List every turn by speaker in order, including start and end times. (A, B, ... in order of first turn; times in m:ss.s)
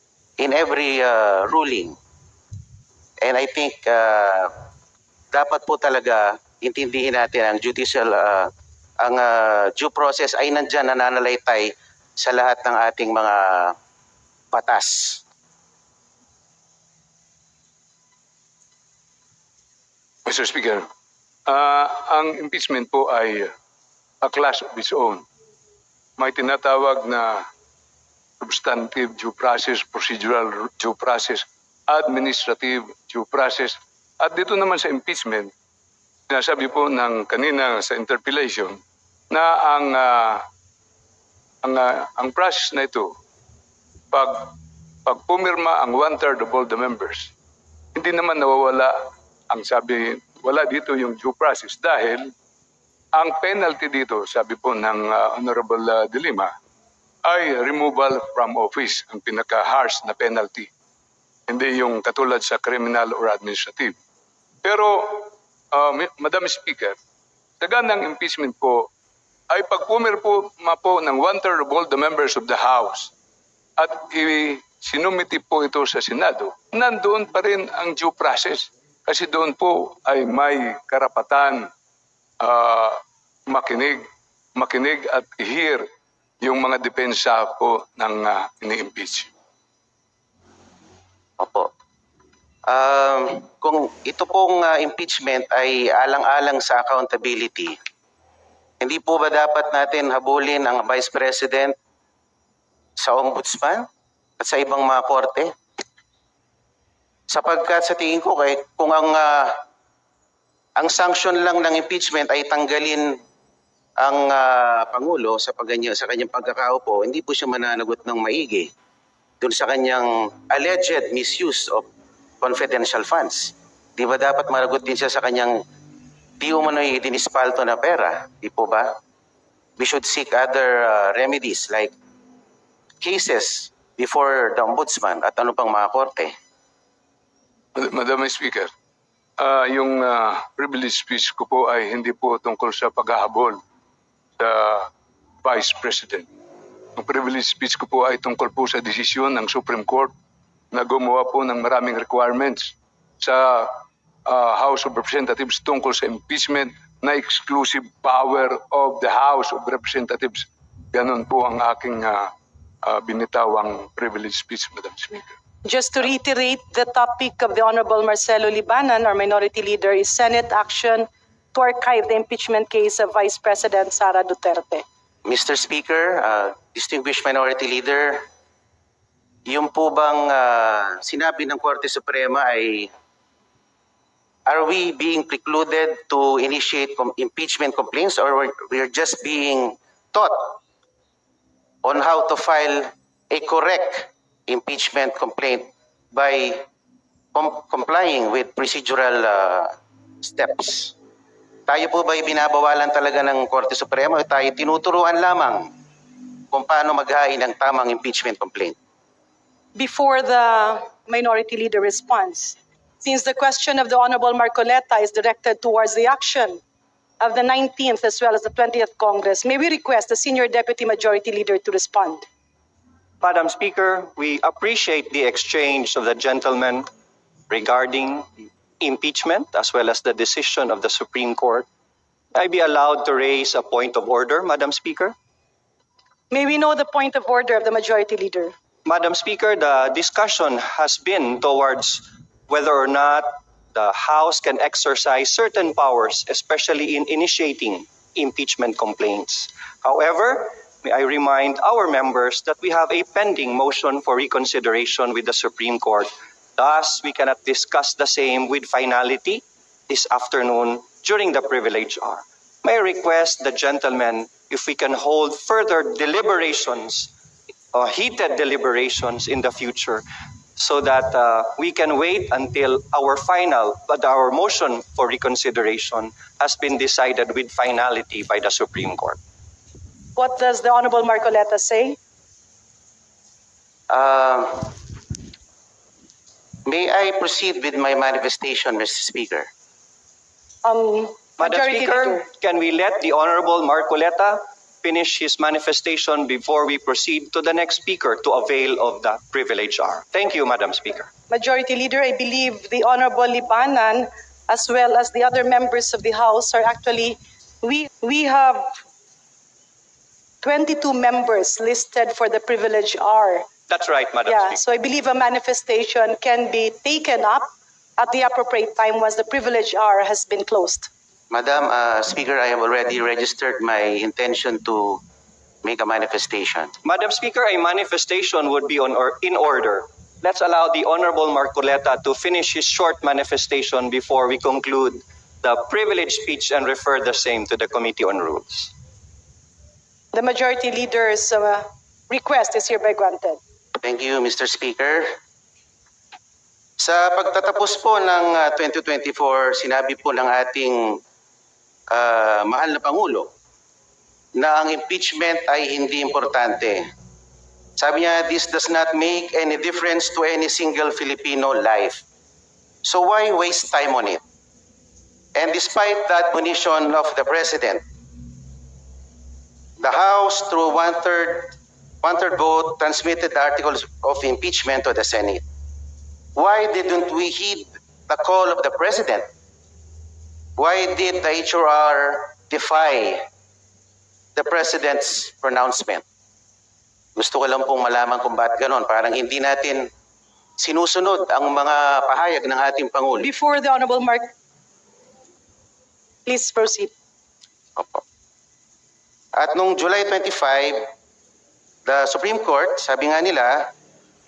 0:00.4-0:02.0 A
0:03.2-0:04.5 A
0:05.3-0:08.5 A
0:09.0-0:13.8 A
0:14.5-0:15.2 A
0:20.2-0:20.8 B
0:21.5-0:23.5 B
0:24.2-0:25.2 B
0:26.2-0:27.4 B
0:28.4-0:35.5 B
0:36.3-0:38.8 B
0:39.3-0:40.4 B
0:41.6-0:43.1 B
0:44.1-0:44.5 B
0:45.1-0:47.3 B
0:48.0-0:48.9 B
0:49.5-0:52.3 B
0:53.2-0:56.5 B
0:57.2-1:00.7 B
1:01.5-1:04.0 B
1:04.6-1:07.0 B
1:07.6-1:08.9 B
1:09.5-1:13.1 B
1:13.8-1:21.7 B
1:22.4-1:24.0 B
1:24.6-1:25.8 B
1:26.4-1:29.3 B
1:31.4-1:31.7 A
1:32.7-1:37.8 A
1:38.8-1:41.8 A
1:43.0-1:43.9 A
1:44.4-1:45.5 A
1:47.3-1:49.6 A
1:50.8-1:53.2 A
1:54.0-1:58.7 A
1:59.4-2:01.8 A
2:02.4-2:05.6 A
2:06.4-2:09.0 A
2:09.8-2:11.9 A
2:13.0-2:16.3 A
2:17.8-2:18.7 B
2:19.4-2:23.6 B
2:24.4-2:24.9 B
2:25.4-2:26.3 B
2:27.0-2:30.1 B
2:30.7-2:42.3 B
2:42.8-2:45.3 B
2:45.6-2:54.8 C
2:55.2-2:58.2 A
2:59.5-3:02.9 A
3:04.5-3:10.6 A
3:11.8-3:16.6 A
3:17.3-3:20.9 A
3:21.7-3:25.7 A
3:26.5-3:28.8 A
3:29.8-3:36.6 C
3:37.2-3:42.2 C
3:43.2-3:46.9 D
3:47.5-3:51.6 D
3:52.3-3:55.2 D
3:56.3-3:58.5 C
3:58.8-4:27.1 D
4:27.7-4:30.0 D
4:30.6-4:39.2 D
4:40.2-4:42.0 C
4:43.9-4:44.7 A
4:46.6-4:49.5 A
4:50.6-4:52.3 C
4:51.4-5:01.1 D
5:01.3-5:08.8 C
5:10.4-5:13.5 C
5:13.7-5:14.6 D
5:14.2-5:17.5 C
5:18.0-5:20.9 C
5:21.3-5:25.0 A
5:25.6-5:26.7 A
5:26.8-5:38.7 D
5:40.1-5:43.4 C
5:43.8-5:45.1 A
5:46.8-5:51.0 A
5:51.9-5:53.3 A
5:54.4-5:56.8 A
5:57.8-6:02.0 A
6:02.8-6:04.2 A
6:05.4-6:07.8 A
6:09.8-6:15.4 A
6:16.4-6:19.2 A
6:20.6-6:23.2 A
6:24.4-6:26.0 A
6:27.2-6:29.9 A
6:30.6-6:33.3 A
6:33.2-6:34.3 C
6:36.2-6:36.9 C
6:37.8-6:38.0 A
6:39.4-6:40.9 A
6:41.9-6:43.7 A